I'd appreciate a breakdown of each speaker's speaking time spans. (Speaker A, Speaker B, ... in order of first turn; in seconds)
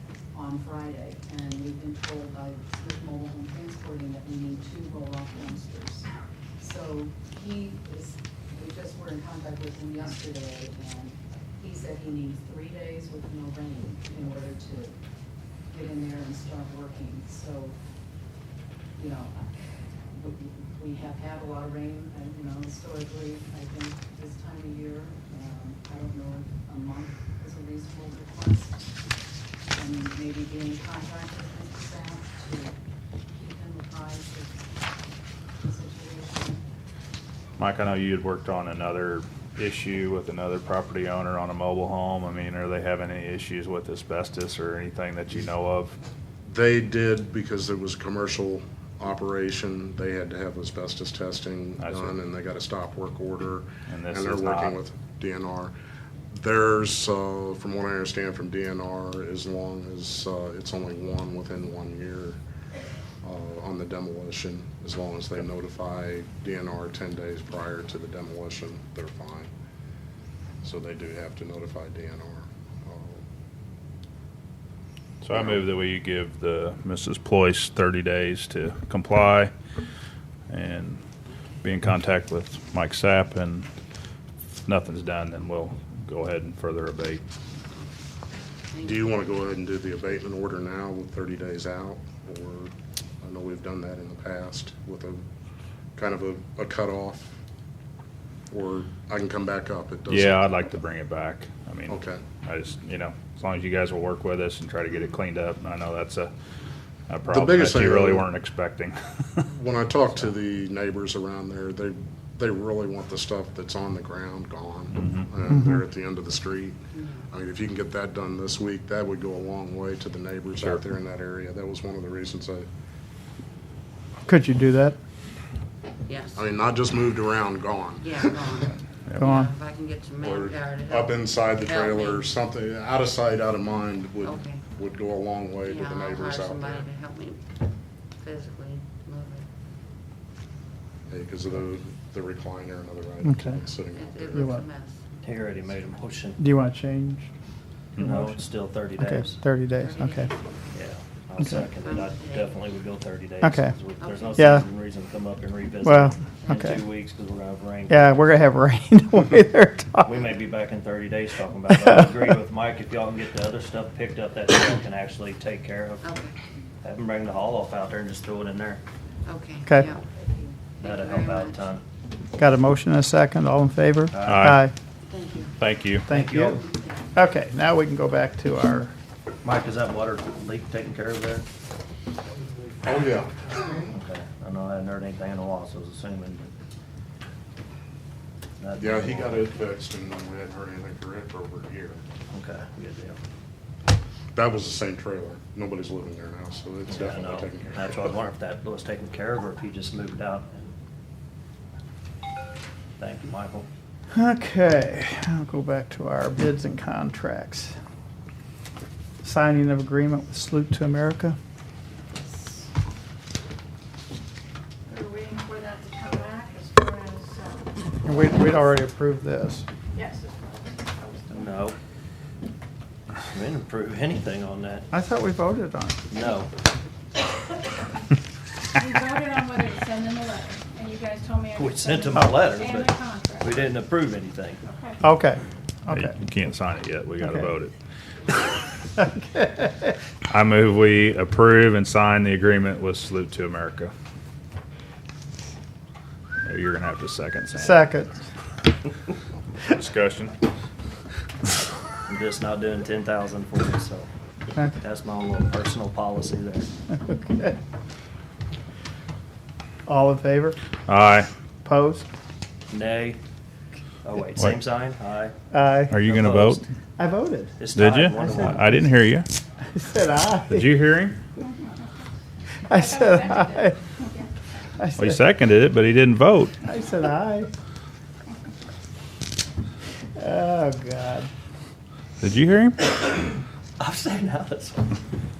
Speaker A: 0.3-6.1, 6.6-14.9, 15.7-17.8, 19.0-28.9, 29.7-32.8, 33.3-34.6, 35.6-36.6, 169.7-170.6
Speaker B: 37.6-45.9, 51.8-52.1, 53.9-54.8, 75.2-79.5, 80.5-81.0, 81.6-83.7, 84.7-87.2, 100.1-106.3, 107.1-109.5, 114.9-115.3, 174.2-174.7, 175.6-176.1, 235.9-237.7, 240.3-243.9, 246.4-247.9, 249.7-250.3, 260.9-261.3, 265.9-266.6, 267.7-269.3, 270.5-271.2, 275.0-276.6, 282.2-282.8
Speaker C: 46.5-55.7, 56.3-62.4, 63.2-69.5, 70.6-73.2, 88.8-95.2, 95.9-97.3, 98.5-100.5, 101.9-102.2, 107.3-108.3, 109.5-116.8, 117.3-122.7, 126.3-128.7, 130.2-136.9, 141.1-144.5, 182.7-183.9, 188.8-192.0, 194.3-198.2
Speaker D: 88.7-89.2, 116.9-117.3, 126.1-126.5, 128.0-132.3, 134.2-134.7, 135.6-137.4, 138.2-139.4, 143.9-146.0, 149.7-150.8, 151.7-152.8, 153.9-154.4, 166.0-166.4, 169.2-170.0, 170.8-171.6, 175.1-175.6
Speaker E: 115.5-115.8, 124.3-125.0, 129.2-129.5, 143.2-143.6, 144.3-144.6, 146.4-147.3, 149.0-150.3, 153.4-153.8, 154.4-154.7, 155.8-156.8, 157.9-160.2, 161.7-162.1, 172.4-174.7, 176.1-176.6, 177.1-178.9, 204.2-207.7, 209.2-211.4, 218.0-219.7, 224.9-226.1, 235.0-236.1, 239.0-239.9, 247.5-248.2, 257.1-257.6, 259.9-260.6, 261.6-262.0, 265.5-266.1, 267.0-267.7, 268.2-268.9, 269.7-270.7, 272.7-273.8, 274.8-275.2, 276.6-277.5, 280.2-281.3
Speaker F: 145.2-146.4, 148.0-149.4, 150.7-158.2, 160.0-166.0, 166.8-168.8, 170.8-171.8, 174.1-174.5, 176.1-176.6, 179.4-181.4, 183.9-186.5, 188.6-189.4, 192.3-193.2, 196.9-200.7, 203.0-203.7, 221.3-221.8, 223.3-224.9, 226.1-226.5, 231.5-234.6, 252.1-254.1, 254.8-256.7, 262.7-263.2, 264.0-265.3, 266.1-266.6, 267.6-268.7, 283.8-284.9
Speaker G: 212.2-212.7, 214.9-218.7, 219.9-221.6, 228.7-233.9, 234.6-235.0, 272.7-274.3